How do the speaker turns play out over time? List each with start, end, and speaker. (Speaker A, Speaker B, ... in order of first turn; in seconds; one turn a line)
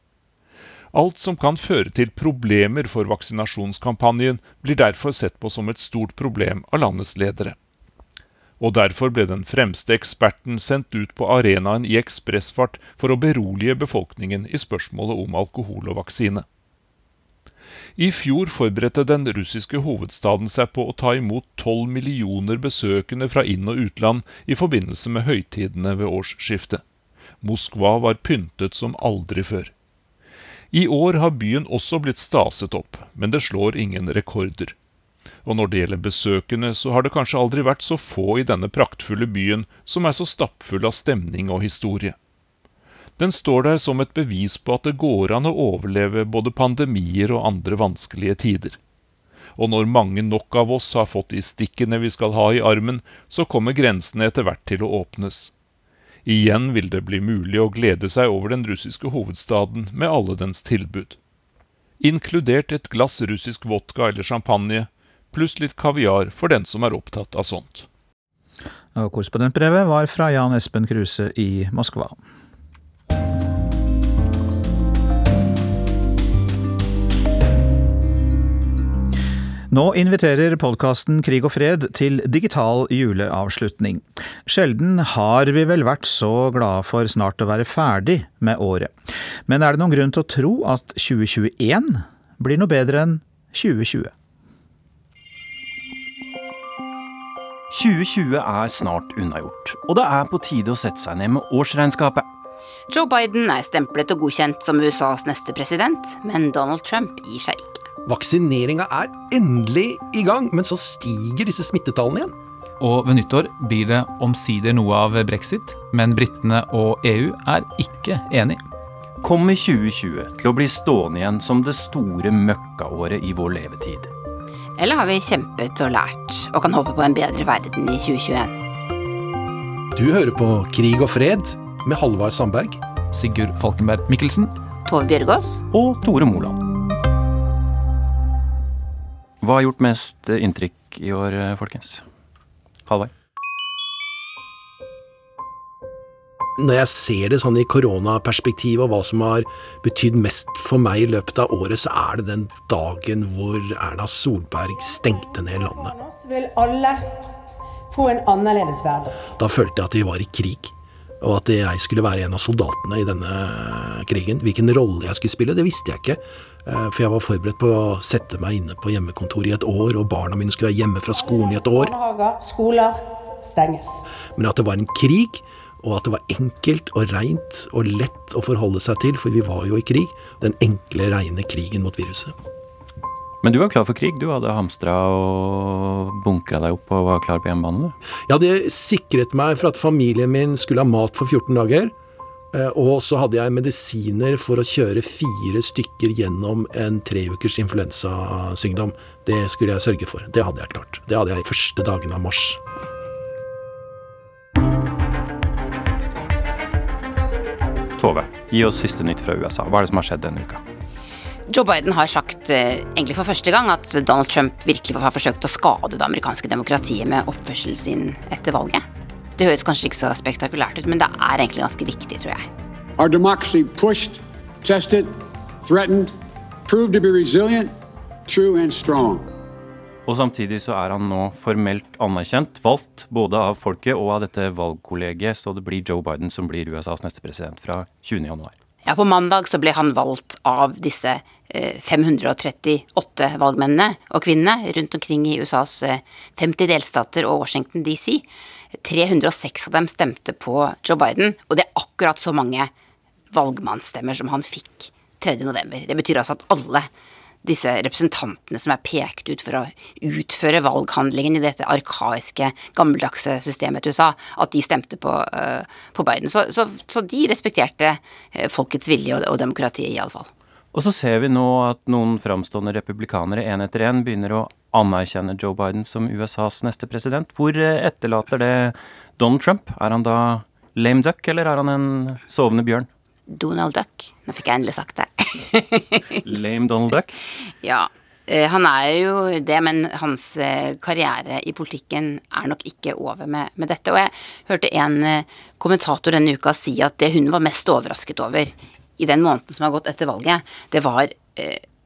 Speaker A: 0.9-7.5
Speaker A: 8.6-16.4
Speaker A: 18.0-26.8
Speaker A: 27.4-29.7
Speaker A: 30.7-34.8
Speaker A: 35.4-42.1
Speaker A: 43.2-48.8
Speaker A: 49.5-55.5
Speaker A: 56.2-61.2
Speaker A: 62.0-67.9
Speaker B: 68.9-72.2
Speaker B: 79.7-88.9
Speaker B: 89.5-94.1
Speaker C: 97.7-102.3
Speaker D: 102.9-107.8
Speaker E: 108.0-112.3
Speaker F: 112.8-118.6
Speaker C: 119.2-124.1
Speaker D: 124.8-128.5
Speaker E: 129.9-132.8
Speaker F: 133.1-134.5
Speaker D: 134.8-135.6
Speaker C: 135.7-136.6
Speaker C: 139.4-142.0
Speaker E: 146.6-155.9
Speaker G: 155.8-157.0
Speaker G: 157.9-159.2
Speaker E: 159.4-171.9
Speaker G: 171.1-174.0
Speaker E: 174.3-182.3
Speaker C: 183.4-187.9
Speaker E: 188.3-191.9
Speaker E: 192.5-202.6
Speaker C: 208.0-210.6
Speaker D: 211.5-218.8
Speaker D: 219.4-222.5
Speaker H: 223.0-226.1
Speaker H: 226.7-227.7
Speaker H: 228.2-229.3
Speaker C: 230.1-238.5
Speaker D: 238.8-248.2
Speaker D: 248.8-252.7
Speaker D: 253.3-256.9
Speaker D: 257.4-270.3
Speaker C: 270.7-282.9
Speaker D: 283.3-286.2
Speaker C: 286.2-287.1
Speaker D: 287.4-301.6